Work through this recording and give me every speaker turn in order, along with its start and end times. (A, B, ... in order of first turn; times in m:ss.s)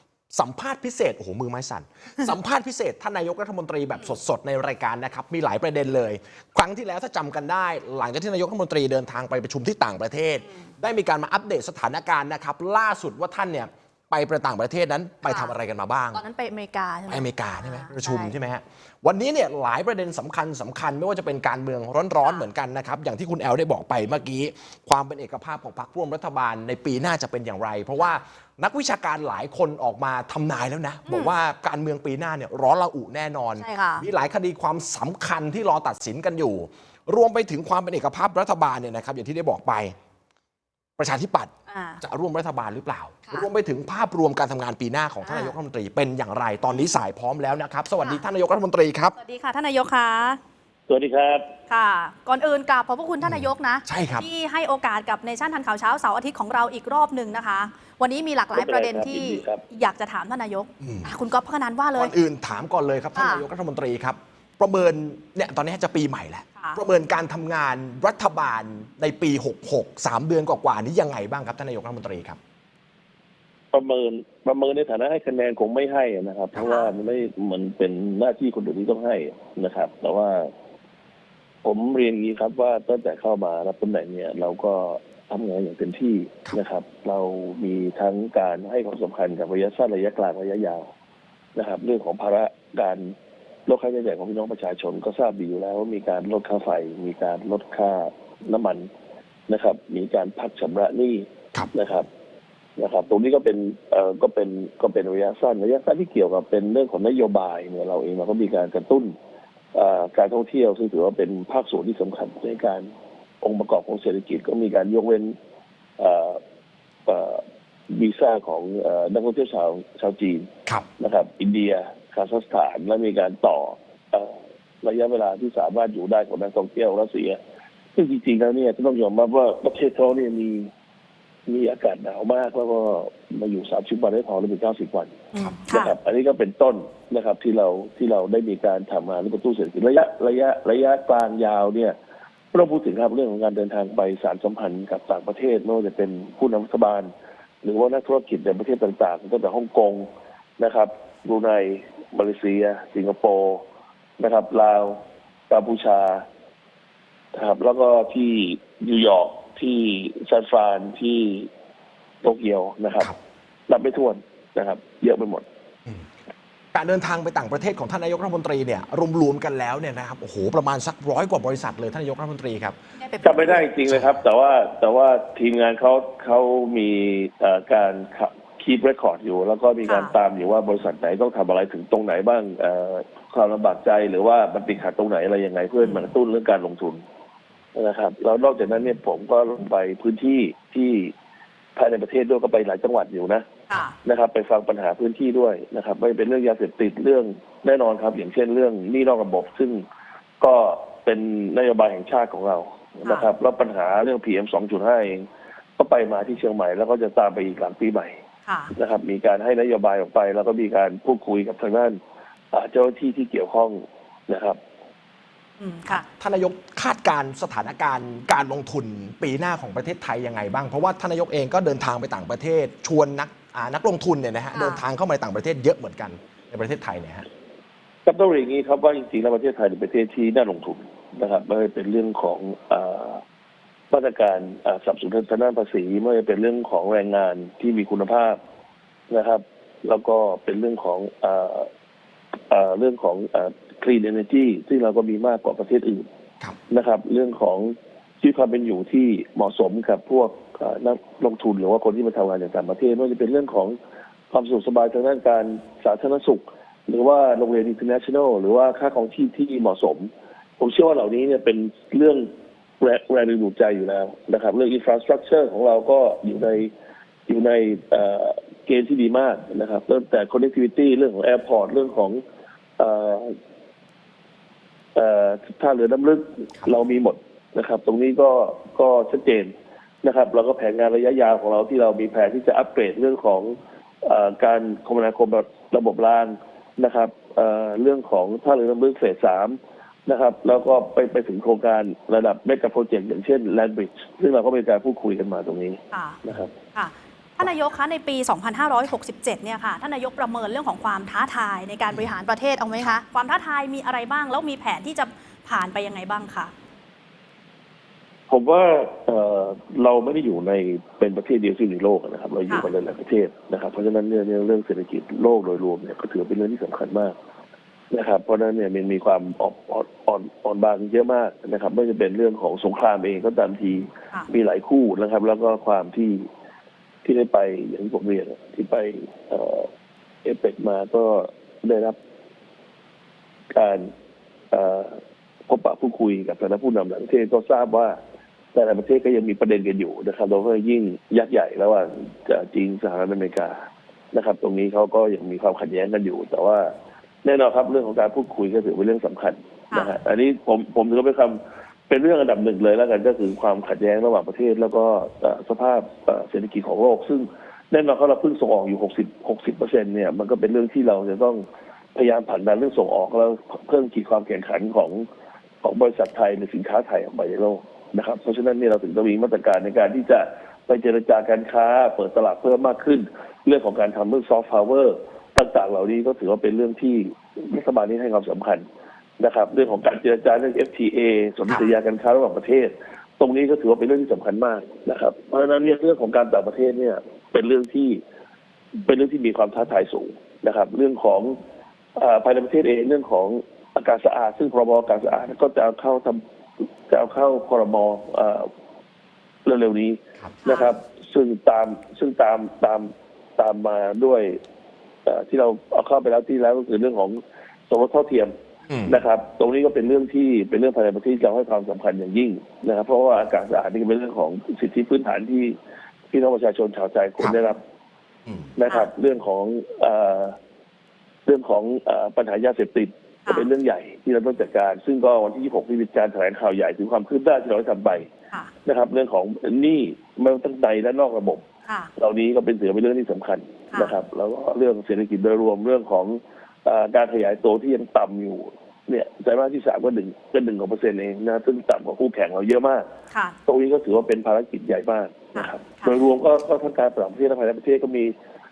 0:00.3-0:16.2 A
0:15.2-0:15.5 B
0:16.1-0:18.3 B
0:17.1-0:40.0 A
0:31.1-0:31.3 B
0:33.6-0:34.1 B
0:41.0-0:49.2 A
0:41.7-0:42.0 B
0:45.2-0:45.5 B
0:49.2-0:50.4 B
0:50.9-0:51.5 C
0:51.7-1:02.1 B
0:53.2-0:54.2 A
0:58.5-0:59.6 C
1:00.8-1:01.1 A
1:02.0-1:12.4 A
1:03.1-1:03.4 B
1:13.7-1:20.5 C
1:16.6-1:16.9 B
1:21.6-1:30.9 C
1:31.6-1:33.1 C
1:33.7-1:38.9 C
1:39.5-1:42.1 C
1:42.8-1:49.1 C
1:49.7-1:52.9 C
1:53.4-1:55.3 C
1:56.0-1:56.4 C
1:57.0-2:07.4 C
2:08.0-2:10.7 C
2:11.5-2:22.0 C
2:15.3-2:16.0 B
2:22.5-2:27.1 C
2:27.6-2:33.6 C
2:34.2-2:36.2 C
2:37.3-2:41.5 C
2:42.2-2:43.1 C
2:43.7-2:45.4 C
2:46.7-2:52.8 A
2:53.0-2:53.7 B
2:53.2-3:07.0 C
2:59.8-3:00.2 B
3:07.8-3:11.1 C
3:11.8-3:13.5 C
3:13.7-3:14.0 B
3:14.0-3:19.8 C
3:20.4-3:25.3 C
3:25.8-3:28.2 C
3:28.4-3:28.7 B
3:28.7-3:32.0 C
3:32.5-3:34.6 C
3:35.6-3:36.1 B
3:35.9-3:47.2 A
3:44.5-3:44.8 B
3:48.1-3:53.2 C
3:53.9-3:58.4 C
3:59.1-4:01.7 C
4:02.5-4:06.1 C
4:06.7-4:13.8 C
4:14.3-4:26.7 C
4:27.3-4:32.2 C
4:32.8-4:33.4 C
4:34.9-4:56.5 C
4:55.9-4:56.2 B
4:56.7-5:06.5 B
5:08.3-5:17.2 C
5:17.9-5:26.3 C
5:27.0-5:29.7 C
5:30.2-5:32.0 C
5:33.5-5:33.9 C
5:34.5-5:38.0 C
5:38.5-5:43.6 C
5:44.1-6:05.1 C
6:05.6-6:18.6 C
6:19.2-6:28.0 C
6:21.5-6:21.7 B
6:28.8-6:31.4 C
6:32.0-6:36.2 C
6:36.9-6:38.5 C
6:39.4-6:44.4 C
6:40.4-6:40.7 B
6:45.1-6:48.3 C
6:48.7-6:49.0 A
6:48.9-6:55.6 C
6:56.1-6:57.6 C
6:58.6-7:00.4 C
7:01.2-7:08.1 C
7:08.6-7:11.4 C
7:11.6-7:11.9 B
7:12.0-7:22.9 C
7:23.1-7:23.4 B
7:23.4-7:28.1 C
7:25.3-7:26.0 B